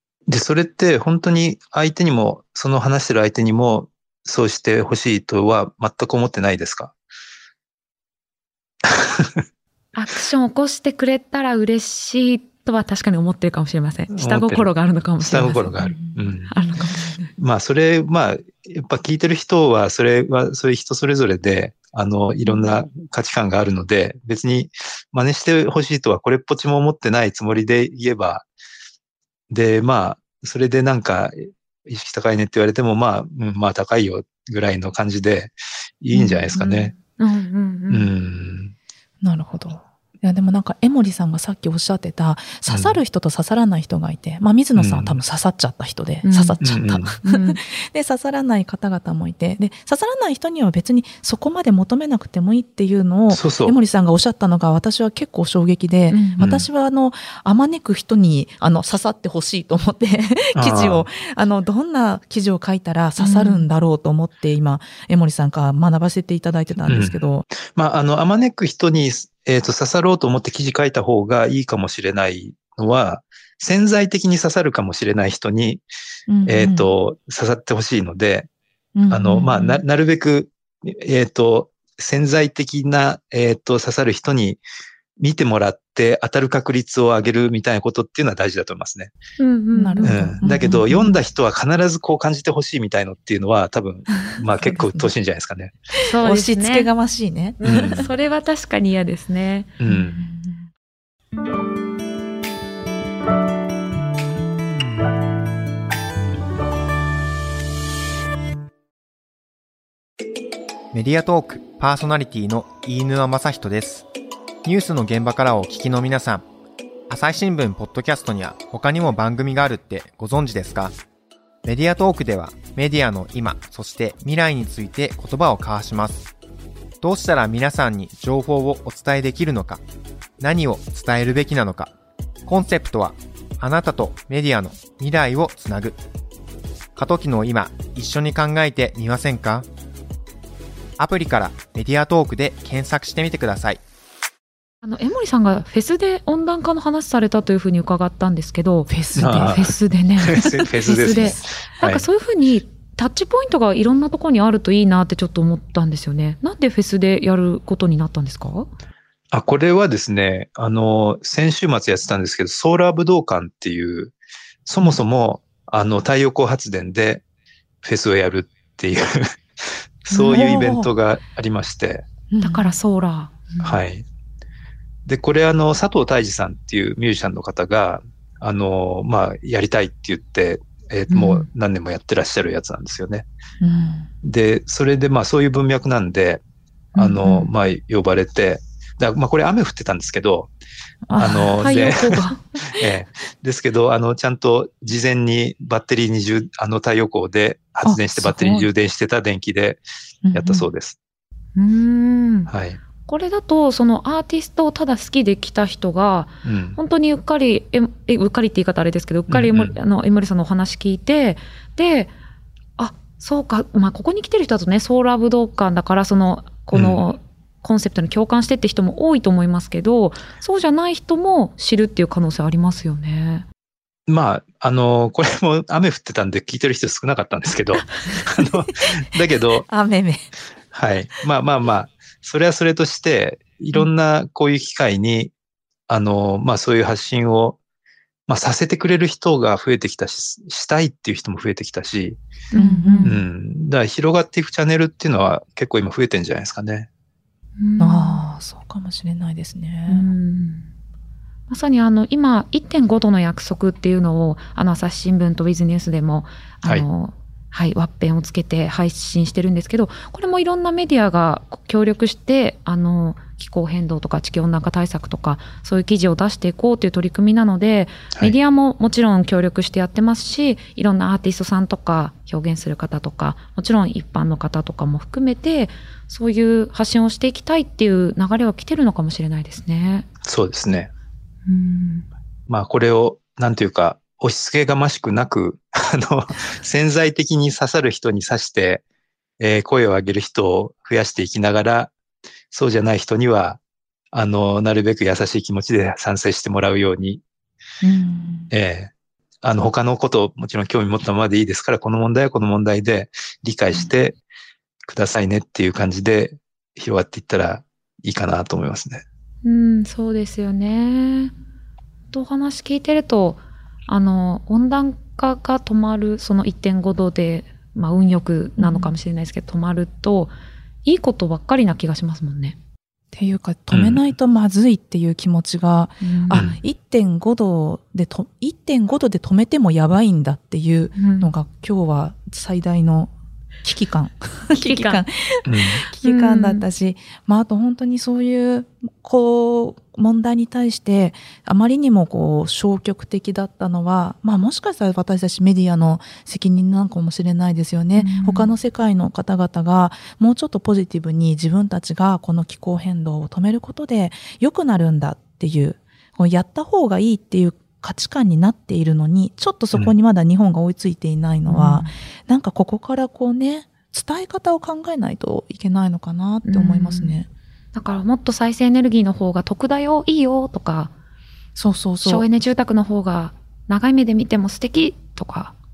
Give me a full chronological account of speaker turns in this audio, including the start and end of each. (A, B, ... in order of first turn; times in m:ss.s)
0:00.3-0:06.9 A
0:08.9-0:09.4 A
0:10.0-0:16.0 B
0:14.1-0:16.5 A
0:15.9-0:17.1 C
0:16.5-0:17.3 B
0:17.4-0:28.5 A
0:29.5-0:36.9 A
0:36.1-0:38.1 B
0:37.9-0:38.7 A
0:39.2-1:07.4 C
0:42.7-0:43.0 A
0:44.8-0:45.2 A
0:46.2-0:46.6 B
0:46.6-0:47.2 A
0:47.2-0:47.6 B
0:53.3-0:53.8 A
0:56.1-0:56.4 B
0:56.4-0:56.7 A
1:00.6-1:01.1 A
1:03.2-1:03.7 B
1:06.8-1:15.8 A
1:16.3-1:16.9 C
1:16.4-1:18.5 A
1:19.0-1:19.8 C
1:19.1-1:24.6 A
1:25.2-1:29.1 A
1:29.4-1:30.4 B
1:29.7-1:31.2 C
1:30.0-1:35.8 A
1:34.4-1:35.1 C
1:36.0-1:36.9 B
1:36.2-1:38.1 C
1:37.6-1:39.7 B
1:37.6-1:38.0 A
1:39.8-1:40.2 A
1:39.9-1:40.7 C
1:50.9-1:54.1 D
1:54.6-1:56.4 D
1:57.1-2:01.0 D
2:01.6-2:06.3 D
2:07.0-2:09.8 D
2:10.4-2:11.9 D
2:12.5-2:16.0 D
2:17.0-2:19.7 D
2:21.0-2:23.8 D
2:24.8-2:38.7 B
2:28.9-2:29.6 C
2:29.2-2:32.1 A
2:30.4-2:31.4 C
2:39.3-2:44.1 A
2:44.7-2:47.2 A
2:47.8-2:49.3 A
2:50.1-2:52.1 A
2:50.1-2:50.4 B
2:50.3-2:50.9 C
2:52.3-2:52.8 C
2:52.4-2:53.8 B
2:53.6-2:54.0 A
2:55.1-3:03.2 A
3:01.1-3:01.5 B
3:03.6-3:04.1 C
3:04.2-3:06.4 A
3:07.0-3:10.5 A
3:07.0-3:07.5 C
3:11.1-3:12.4 C
3:11.2-3:19.8 A
3:11.6-3:12.4 B
3:17.8-3:18.7 C
3:20.2-3:20.7 C
3:20.3-3:21.0 A
3:21.6-3:22.5 B
3:22.5-3:22.8 A
3:23.1-3:32.1 B
3:26.4-3:26.8 A
3:29.3-3:29.8 A
3:32.8-3:43.5 B
3:36.7-3:37.0 A
3:44.1-3:49.7 A
3:48.2-3:48.8 C
3:49.6-3:50.3 C
3:50.7-3:55.3 A
3:55.9-3:57.6 A
3:58.3-4:02.2 A
4:02.5-4:03.2 B
4:02.6-4:03.1 C
4:03.0-4:06.9 A
4:07.6-4:08.2 B
4:07.8-4:10.1 C
4:09.9-4:10.7 B
4:11.5-4:40.1 B
4:40.2-4:40.9 A
4:41.5-4:42.1 B
4:42.5-4:48.8 A
4:49.4-4:51.9 A
4:52.5-4:53.6 A
4:54.1-4:57.2 A
4:57.8-4:58.5 C
4:58.5-4:58.9 A
4:59.4-5:04.2 A
5:04.9-5:09.0 A
5:09.4-5:11.3 B
5:12.1-5:20.3 B
5:18.6-5:18.9 C
5:20.8-5:22.6 B
5:23.1-6:07.3 C
5:23.7-5:24.0 A
5:26.0-5:26.5 B
5:26.3-5:26.6 A
5:31.0-5:31.3 B
5:34.5-5:35.0 B
5:35.5-5:35.8 A
5:36.0-5:36.6 B
5:48.0-5:48.5 B
6:01.5-6:02.0 B
6:06.4-6:07.2 B
6:07.7-6:10.9 B
6:11.6-6:12.3 C
6:12.0-6:15.6 B